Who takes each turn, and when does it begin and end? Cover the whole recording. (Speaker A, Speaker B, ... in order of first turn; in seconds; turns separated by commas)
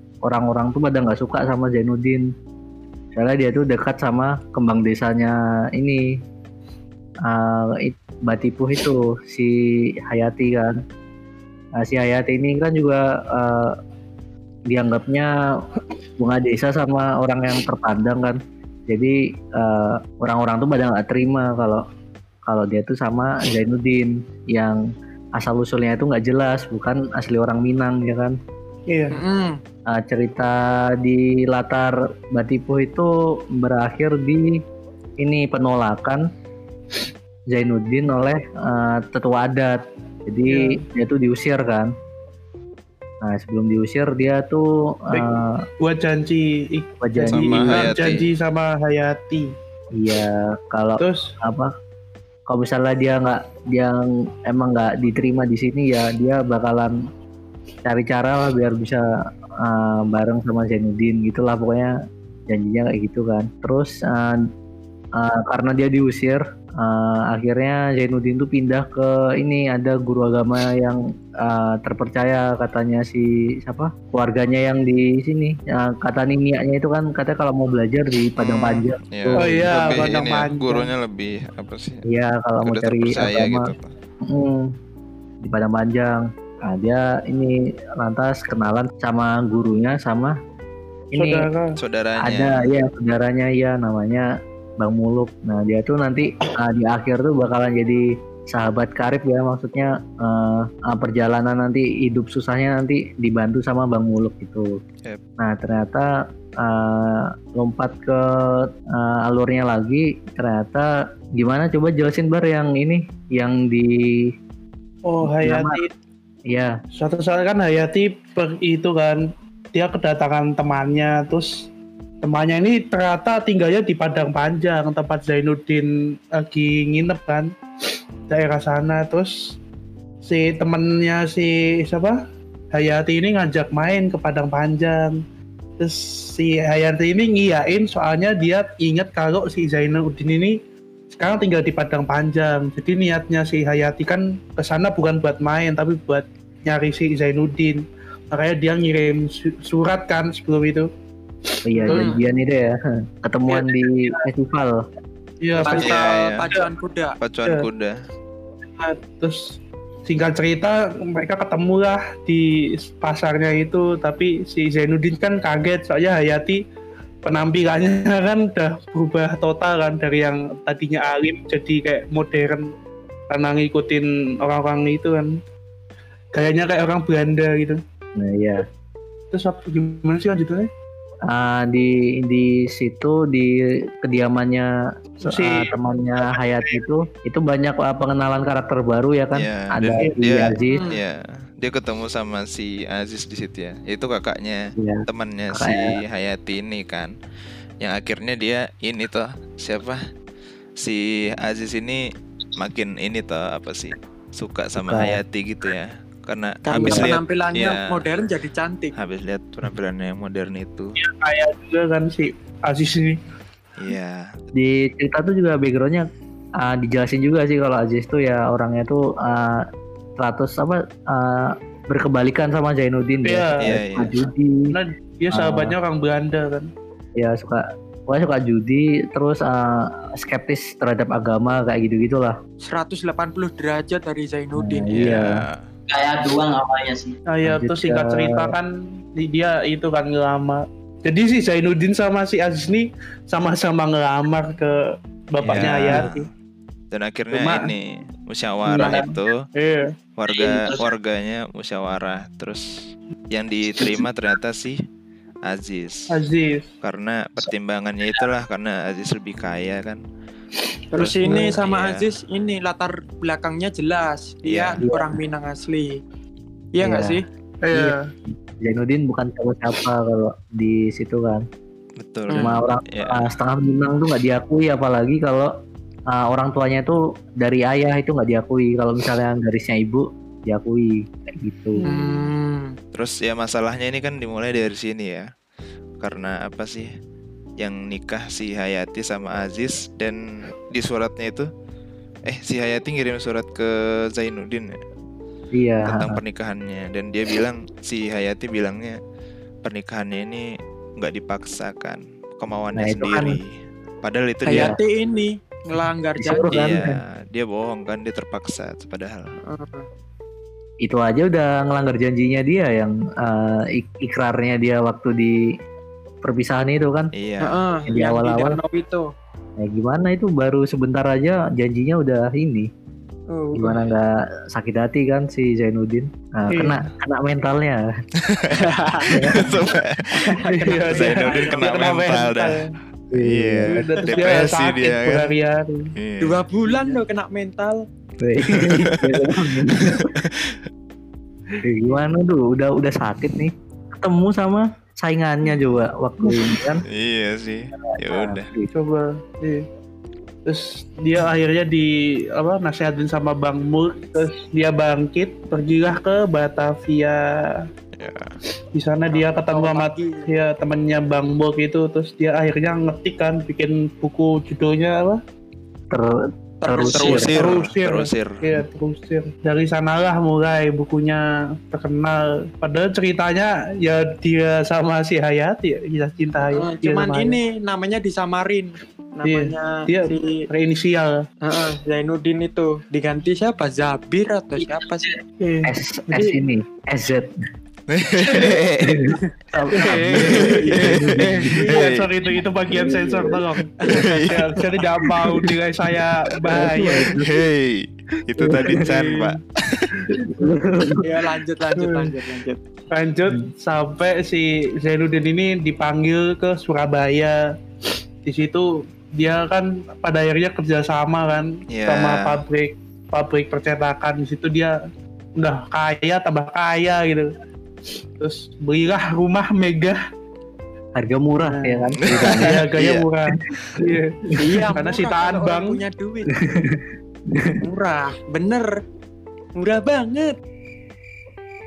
Speaker A: 0.2-2.2, Speaker A: 3.1-6.0, Speaker A: 7.3-10.8, Speaker A: 11.8-13.8, Speaker A: 14.7-15.3, Speaker A: 16.2-21.8, Speaker A: 22.5-24.8, Speaker A: 25.4-28.4, Speaker B: 28.9-29.2, Speaker C: 29.1-29.6, Speaker A: 29.9-34.6, Speaker A: 35.2-36.2, Speaker A: 37.5-41.9, Speaker B: 40.5-40.8, Speaker A: 43.2-45.6, Speaker B: 45.8-49.5, Speaker A: 47.0-48.0, Speaker D: 47.3-48.3, Speaker A: 50.0-51.7, Speaker B: 51.0-51.3, Speaker A: 52.5-57.0, Speaker A: 57.9-59.0, Speaker A: 59.6-61.9, Speaker A: 62.5-64.4, Speaker A: 65.2-80.0, Speaker D: 78.4-82.0, Speaker B: 79.4-80.9, Speaker A: 82.1-83.7, Speaker D: 82.6-83.9, Speaker A: 84.2-84.7, Speaker A: 85.4-90.3, Speaker A: 91.1-91.5, Speaker B: 91.2-91.7, Speaker D: 91.8-92.8, Speaker A: 92.2-94.3, Speaker A: 94.8-104.7, Speaker A: 105.4-106.1, Speaker A: 106.6-114.2, Speaker B: 115.1-115.9, Speaker A: 115.2-115.8, Speaker B: 117.0-121.7, Speaker B: 122.2-127.5, Speaker B: 128.3-129.5, Speaker B: 130.2-132.2, Speaker B: 132.7-135.2, Speaker B: 135.8-140.6, Speaker B: 141.1-150.9, Speaker A: 151.7-154.8, Speaker B: 151.7-152.2, Speaker C: 151.9-152.2, Speaker B: 153.5-154.3, Speaker B: 155.4-156.5, Speaker C: 155.6-157.2, Speaker D: 155.8-156.5, Speaker D: 157.2-158.0, Speaker B: 158.8-159.5, Speaker B: 160.1-166.6, Speaker B: 167.2-172.7, Speaker B: 173.3-175.3, Speaker B: 176.3-177.8, Speaker A: 178.2-178.7, Speaker B: 179.3-180.7, Speaker A: 181.3-184.7, Speaker B: 185.2-186.8, Speaker A: 185.3-190.9, Speaker D: 189.3-197.1, Speaker C: 190.7-191.0, Speaker A: 194.8-196.0, Speaker D: 197.8-200.0, Speaker D: 200.8-202.0, Speaker D: 202.6-207.8, Speaker A: 204.8-205.2, Speaker C: 206.7-208.9, Speaker A: 206.8-207.1, Speaker D: 209.0-211.0, Speaker B: 211.0-213.2, Speaker D: 213.8-214.3, Speaker A: 214.6-216.1, Speaker A: 216.6-219.7, Speaker A: 220.2-224.7, Speaker B: 223.2-223.7, Speaker D: 223.6-224.2, Speaker B: 224.7-226.7, Speaker A: 225.3-225.8, Speaker A: 227.2-232.4, Speaker C: 232.6-234.9, Speaker A: 234.6-235.4, Speaker D: 234.9-235.6, Speaker E: 235.9-237.1, Speaker B: 237.3-244.8, Speaker A: 237.5-238.6, Speaker B: 245.3-246.3, Speaker D: 245.4-246.3, Speaker D: 246.9-249.4, Speaker B: 247.3-247.7, Speaker B: 248.7-249.9, Speaker D: 250.2-252.7, Speaker E: 250.3-250.9, Speaker D: 253.3-254.8, Speaker D: 255.5-256.1, Speaker B: 256.1-256.7, Speaker D: 256.8-260.0, Speaker C: 260.9-266.0, Speaker D: 261.0-262.1, Speaker D: 264.5-264.8, Speaker A: 264.8-265.1, Speaker C: 266.8-267.2, Speaker A: 266.8-267.2, Speaker B: 267.6-268.1, Speaker A: 268.6-271.4, Speaker D: 272.0-273.3, Speaker C: 272.3-272.6, Speaker A: 272.4-275.5, Speaker A: 276.1-281.8, Speaker B: 281.8-282.3, Speaker C: 281.8-282.7, Speaker D: 282.9-285.3, Speaker D: 286.0-286.9, Speaker D: 287.6-291.5, Speaker D: 292.3-294.8, Speaker A: 295.6-296.2, Speaker D: 295.8-299.0, Speaker D: 299.6-303.5, Speaker A: 302.8-303.4, Speaker D: 304.0-304.8, Speaker C: 304.5-306.7, Speaker A: 304.5-304.8, Speaker A: 306.2-307.0, Speaker D: 306.5-309.3, Speaker C: 309.4-309.9, Speaker A: 310.9-315.4, Speaker A: 316.2-317.1, Speaker D: 317.1-317.6, Speaker C: 317.4-319.1, Speaker A: 317.9-318.6, Speaker A: 319.6-322.7, Speaker C: 323.3-323.8, Speaker A: 323.6-327.8, Speaker B: 326.5-326.8, Speaker D: 328.2-330.4, Speaker C: 328.6-329.5, Speaker A: 329.1-329.5, Speaker C: 330.1-331.9, Speaker B: 330.6-332.7, Speaker D: 330.9-335.4, Speaker A: 333.1-333.8, Speaker B: 333.7-335.9, Speaker D: 336.0-336.4, Speaker C: 336.2-337.8, Speaker A: 338.2-340.1, Speaker D: 338.6-340.6, Speaker A: 341.6-346.9, Speaker D: 346.9-348.5, Speaker A: 348.0-348.7, Speaker B: 348.7-349.7, Speaker B: 350.5-357.7, Speaker D: 358.0-358.3, Speaker B: 358.8-365.2, Speaker C: 359.1-360.3, Speaker A: 365.9-367.4, Speaker C: 366.6-367.6, Speaker D: 366.9-368.6, Speaker B: 367.3-377.4, Speaker C: 376.5-380.4, Speaker B: 379.2-381.1, Speaker C: 381.4-385.2, Speaker E: 384.7-385.2, Speaker B: 385.4-385.7, Speaker A: 385.7-387.3, Speaker D: 387.9-389.0, Speaker A: 388.8-391.5, Speaker B: 389.7-397.2, Speaker D: 390.0-392.9, Speaker C: 390.3-391.8, Speaker C: 393.8-394.3, Speaker D: 393.9-394.6, Speaker A: 396.5-397.3, Speaker D: 397.1-400.1, Speaker A: 398.4-398.9, Speaker C: 398.7-399.3, Speaker A: 400.1-401.0, Speaker C: 401.0-402.6, Speaker B: 401.8-402.1, Speaker B: 402.9-407.4, Speaker B: 408.2-414.7, Speaker D: 411.7-412.4, Speaker B: 415.4-417.3, Speaker B: 418.2-420.0, Speaker A: 421.0-422.6, Speaker B: 421.4-424.2, Speaker D: 422.0-423.1, Speaker C: 424.4-426.4, Speaker B: 424.7-425.8, Speaker A: 426.4-427.6, Speaker C: 427.6-428.7, Speaker C: 429.6-430.3